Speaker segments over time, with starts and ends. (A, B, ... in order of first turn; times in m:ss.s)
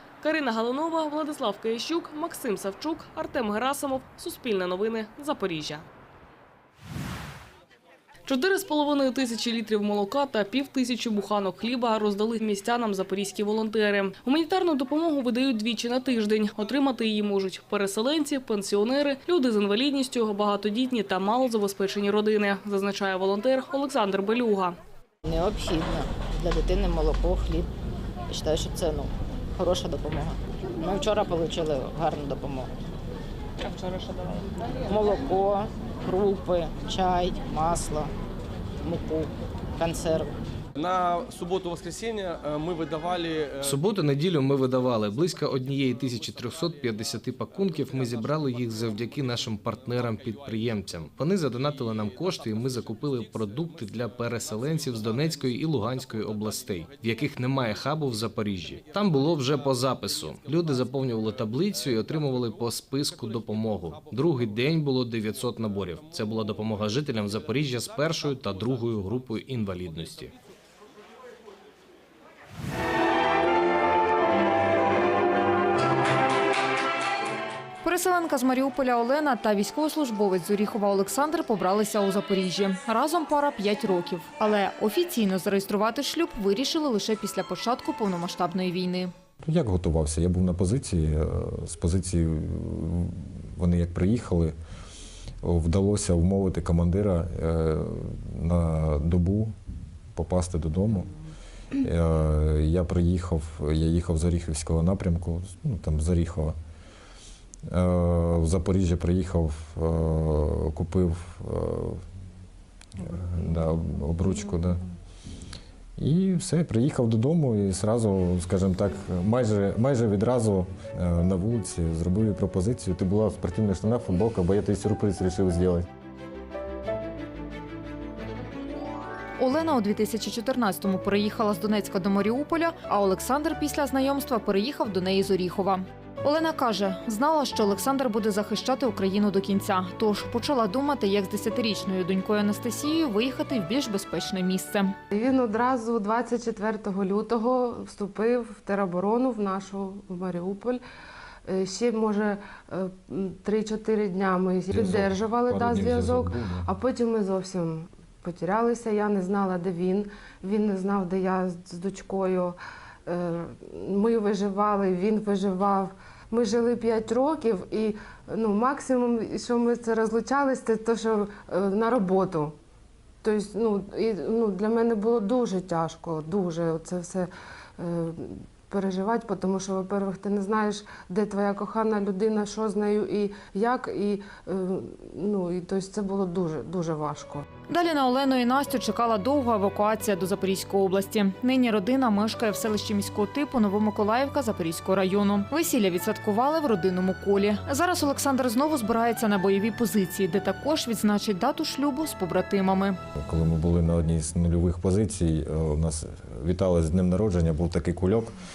0:00.2-0:05.8 A
0:08.2-0:24.8 A
0:25.2-0:27.7 B
0:28.3-0:32.7 B
0:34.8-0:38.1 B
0:38.8-0:40.4 B
0:40.8-0:43.7 C
0:43.6-1:10.3 D
1:17.8-1:29.1 E
1:29.4-1:34.5 F
1:35.4-1:39.5 F
1:40.1-1:41.1 F
1:41.8-1:46.5 F
1:47.7-1:52.0 F
1:53.0-1:54.8 F
1:56.0-2:05.8 F
2:09.4-2:25.0 E
2:25.1-2:30.8 G
2:31.5-2:42.6 G
2:34.7-2:36.7 F
2:43.1-2:52.5 G
2:53.2-3:07.4 G
3:07.7-3:23.0 E
3:23.2-3:28.4 F